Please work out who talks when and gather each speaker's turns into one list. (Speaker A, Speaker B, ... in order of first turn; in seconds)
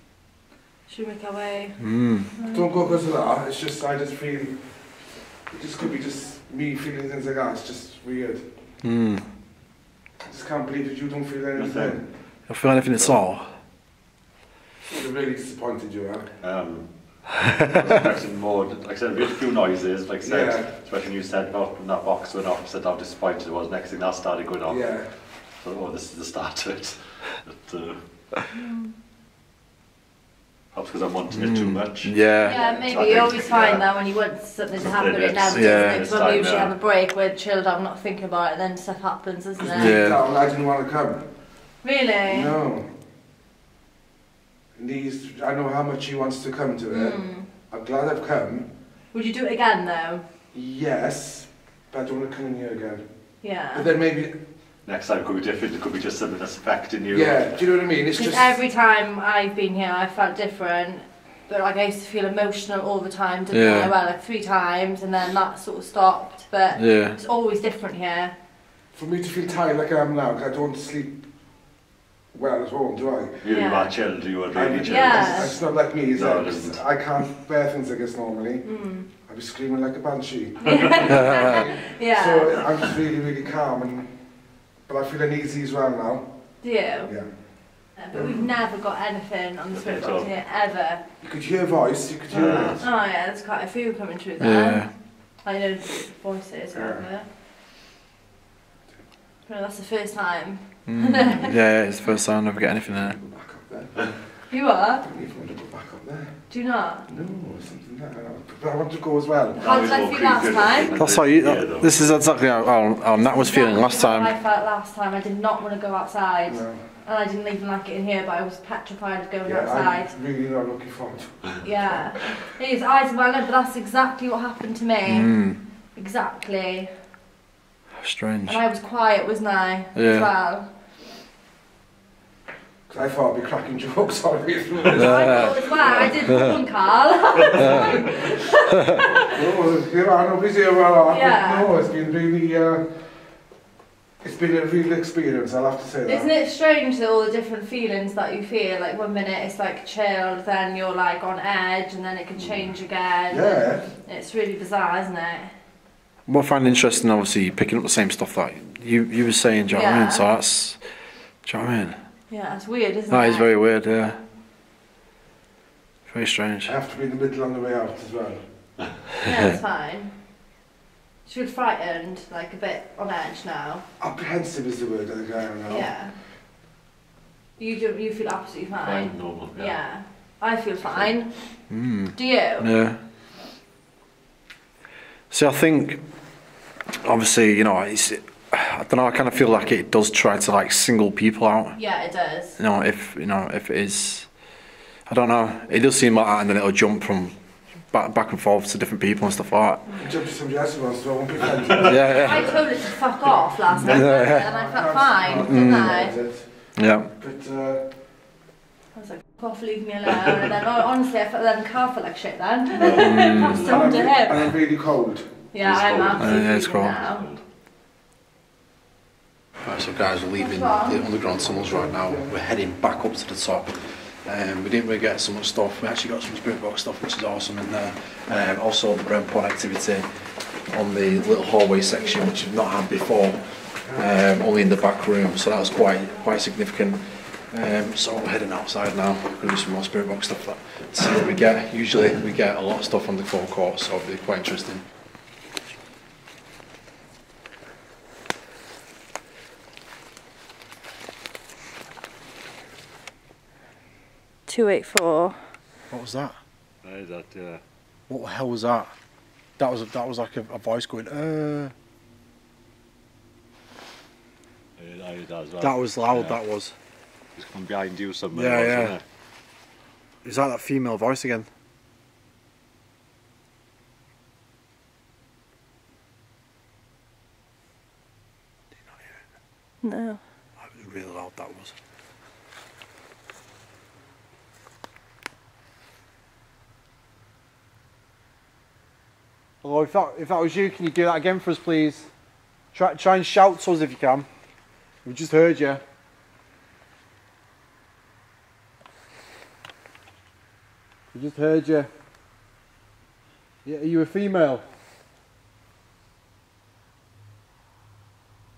Speaker A: 0.9-1.8, 2.3-3.0, 28.5-28.9, 32.4-40.0, 41.8-42.6, 46.9-47.5, 49.1-50.2, 53.4-53.9, 58.1-68.3, 73.5-73.9, 74.9-75.5, 78.6-79.1, 80.6-82.6, 86.6-87.1, 88.0-91.0, 92.8-97.3, 99.5-102.2, 104.5-105.0, 106.5-107.1, 109.5-111.0, 113.1-120.1, 121.6-125.3, 126.0-126.9, 128.4-130.7, 134.9-139.4, 141.1-141.7, 146.1-155.5, 159.7-160.3, 162.3-163.6, 169.2-170.1, 171.3-173.8, 175.7-176.1, 177.6-181.4, 182.1-182.7, 191.8-192.6, 202.1-206.1, 208.9-214.6, 215.5-217.2, 220.4-221.0, 254.5-255.4, 279.8-280.2
Speaker B: 1.8-2.3, 8.8-9.3, 12.5-13.5, 31.3-32.6, 35.5-36.1, 39.7-40.2, 63.5-63.9, 66.7-67.2, 81.0-81.7, 94.4-94.9, 100.9-103.2, 111.0-114.3, 125.0-125.6, 128.0-128.6, 129.9-130.3, 134.9-135.6, 136.3-136.6, 137.6-137.9, 138.8-139.0, 156.3-160.8, 161.4-162.0, 163.1-164.2, 166.1-166.7, 181.7-183.0, 185.3-186.0, 186.9-191.8, 192.6-194.3, 195.1-197.3, 197.9-199.8, 201.8-202.5, 203.8-204.5, 205.4-206.0, 206.8-207.1, 212.9-213.7, 216.2-217.0, 219.6-230.1, 230.7-244.8, 255.9-256.4, 258.1-258.9, 259.6-261.7, 265.6-266.7, 268.3-269.0, 270.2-271.5, 278.9-279.1, 280.6-281.8, 289.6-292.1, 292.7-294.3, 295.1-295.8, 301.1-301.9, 303.6-304.6
Speaker C: 2.5-4.7, 5.5-8.4, 10.2-12.0, 14.9-16.3, 20.2-20.7, 24.7-25.1, 32.5-33.4, 39.6-41.3, 42.3-42.9, 44.8-48.7, 50.5-53.0, 53.7-54.4, 57.1-58.6, 68.9-71.2, 72.3-73.4, 74.5-78.7, 79.2-84.2, 84.8-86.3, 87.0-87.3, 88.1-88.5, 91.2-92.9, 96.7-97.1, 102.9-104.4, 105.0-106.4, 107.1-109.7, 116.5-116.8, 119.4-122.1, 132.9-136.5, 137.6-138.1, 139.3-143.1, 144.2-146.3, 153.3-153.9, 166.6-168.4, 174.0-175.9, 199.9-202.3, 204.3-207.9, 213.6-215.3, 221.5-222.3
Speaker D: 11.5-12.1, 16.4-28.1, 30.7-33.9, 34.8-36.8, 54.8-57.5, 73.4-76.8, 89.7-90.3, 92.3-92.8, 109.6-112.2, 152.4-152.7, 178.8-179.8, 180.8-181.1, 212.8-214.1, 215.6-217.4, 256.8-257.6, 264.8-266.4, 267.4-269.0